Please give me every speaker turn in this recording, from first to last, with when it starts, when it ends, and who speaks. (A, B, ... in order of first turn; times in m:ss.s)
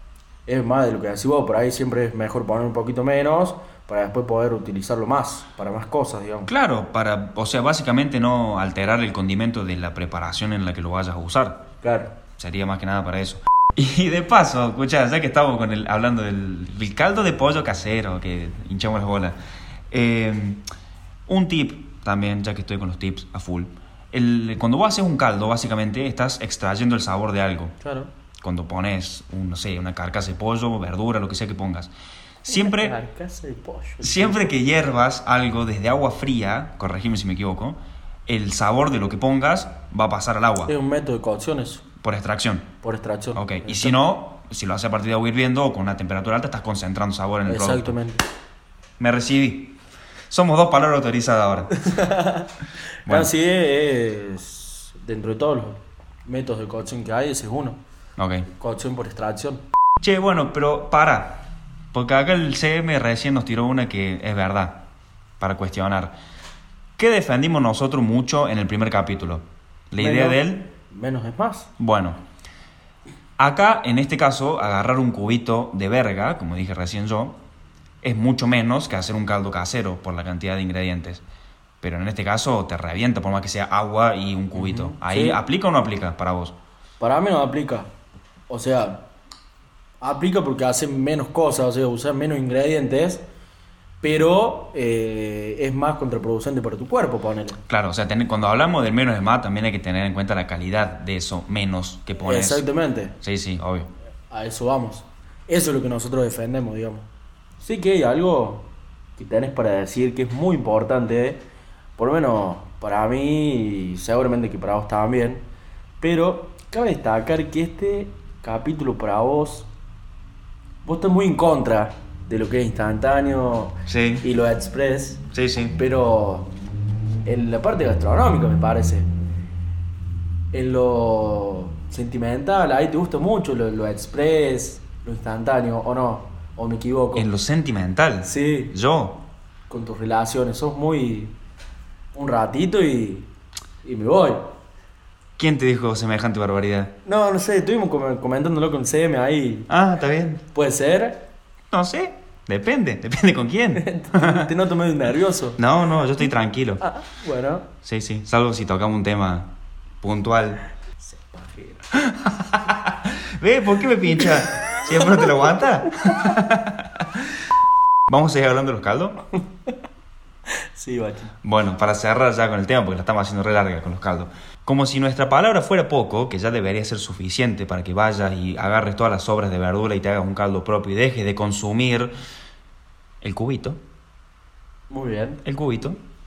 0:00.4-0:06.5 A
0:06.5-0:11.6 B
0:11.8-0:12.1 A
0:12.4-0:19.4 B
0:19.9-0:20.6 B
0:21.3-0:27.7 B
0:27.8-0:28.1 A
0:28.4-0:31.9 B
0:32.4-0:33.0 B
0:32.5-0:34.6 A
0:34.0-0:40.7 B
0:40.6-0:41.8 A
0:42.0-0:42.7 B
0:42.8-0:44.0 A
0:43.3-0:48.0 B
0:47.4-0:48.2 A
0:49.0-0:49.8 B
0:50.3-0:51.8 B
0:51.8-0:52.5 A
0:53.0-0:57.8 A
0:58.2-0:58.5 B
0:58.5-0:59.6 A
1:00.0-1:04.8 B
1:05.4-1:06.2 B
1:07.0-1:10.7 B
1:10.0-1:11.7 A
1:11.8-1:12.2 B
1:13.4-1:17.4 B
1:18.0-1:21.2 B
1:21.8-1:26.5 B
1:24.5-1:25.4 A
1:27.0-1:27.9 A
1:28.5-1:29.1 A
1:30.0-1:33.2 A
1:34.0-1:37.6 A
1:37.7-1:42.6 B
1:42.2-1:43.2 A
1:43.2-1:43.9 B
1:44.3-1:47.1 A
1:47.6-1:51.4 A
1:52.0-1:55.4 A
1:56.0-1:59.7 A
2:00.8-2:05.2 A
2:03.9-2:04.2 B
2:05.3-2:05.8 B
2:05.8-2:06.5 A
2:07.2-2:09.1 A
2:10.5-2:17.3 A
2:17.1-2:19.2 B
2:18.2-2:18.7 A
2:19.7-2:21.4 A
2:22.1-2:23.3 A
2:23.8-2:24.5 A
2:25.4-2:26.9 B
2:27.0-2:29.7 A
2:29.7-2:30.4 B
2:30.5-2:31.3 A
2:31.7-2:34.5 B
2:33.8-2:35.6 A
2:35.6-2:36.9 B
2:36.8-2:37.7 A
2:37.8-2:39.5 B
2:40.0-2:40.6 B
2:41.0-2:41.9 A
2:41.9-2:47.3 B
2:44.2-2:45.3 A
2:48.1-2:49.2 B
2:50.5-2:51.3 A
2:51.4-3:02.1 B
3:03.2-3:03.8 B
3:04.9-3:05.4 A
3:05.4-3:06.0 B